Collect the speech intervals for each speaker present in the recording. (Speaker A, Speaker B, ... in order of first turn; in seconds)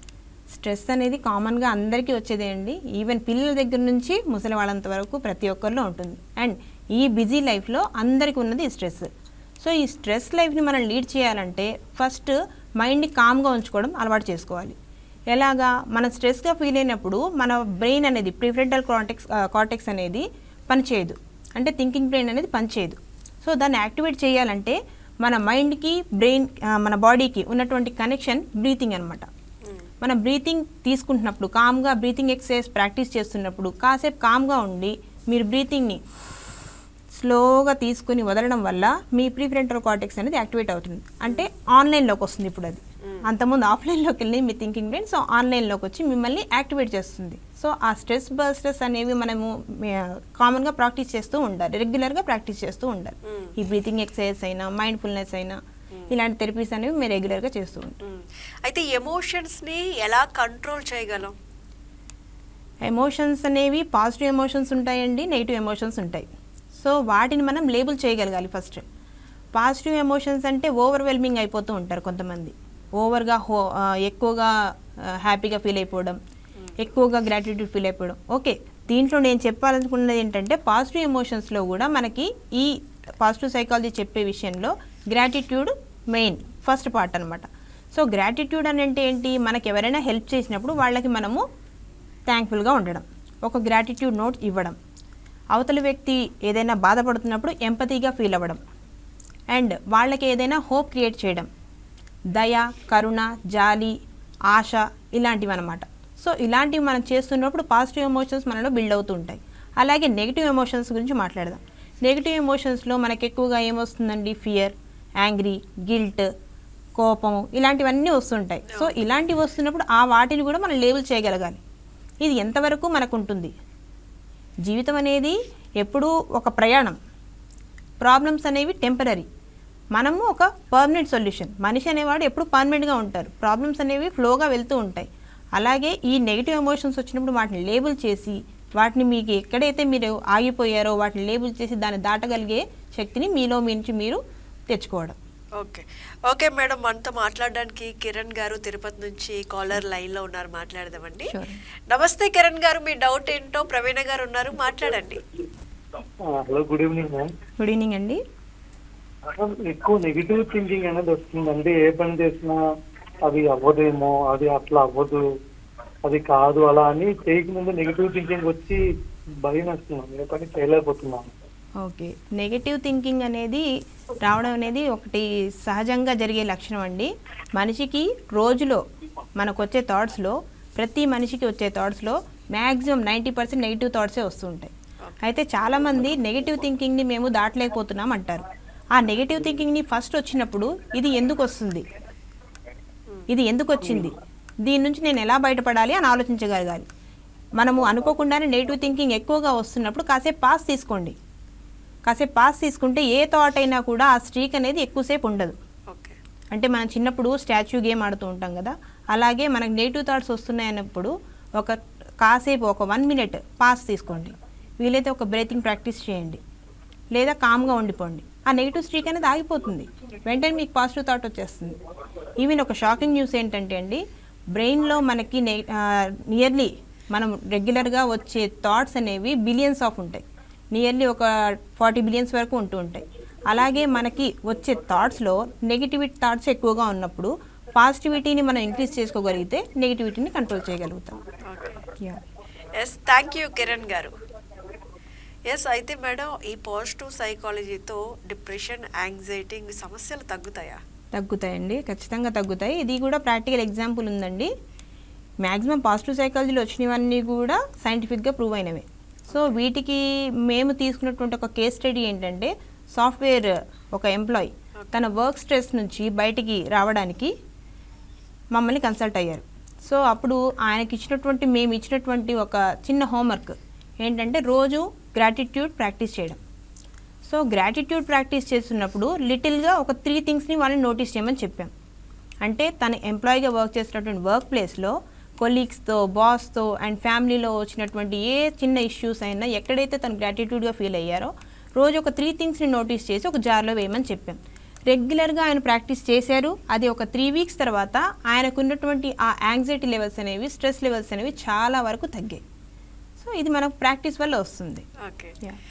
Speaker A: 0.5-9.1, 9.6-14.8, 15.3-29.3, 30.0-36.0, 37.1-55.6, 56.1-58.0, 62.8-68.8, 69.5-76.2, 76.8-91.4, 92.3-94.8, 95.5-98.6, 99.5-101.5, 102.3-104.0, 104.5-116.3, 117.0-121.6, 122.2-123.5, 124.6-127.0, 128.0-129.3, 129.9-145.2, 151.3-151.6, 157.6-158.2, 171.8-173.7, 174.2-178.8, 179.4-191.8, 193.3-196.9, 197.6-201.2, 202.1-205.6, 206.5-216.4, 217.1-221.8, 222.4-224.0, 224.5-241.2, 251.1-254.5, 255.4-267.3, 268.5-276.4, 277.2-281.7, 282.4-302.4, 303.2-304.8
Speaker B: 29.6-29.9, 53.2-53.5, 58.0-61.3, 118.7-118.9, 145.6-151.3, 151.9-155.2, 205.9-206.2, 241.4-241.9, 242.8-244.1, 245.5-250.8, 259.3-259.5, 264.8-265.0, 305.0-305.3
Speaker C: 156.2-157.3, 159.3-162.6, 163.2-165.2, 166.0-168.8, 169.4-171.3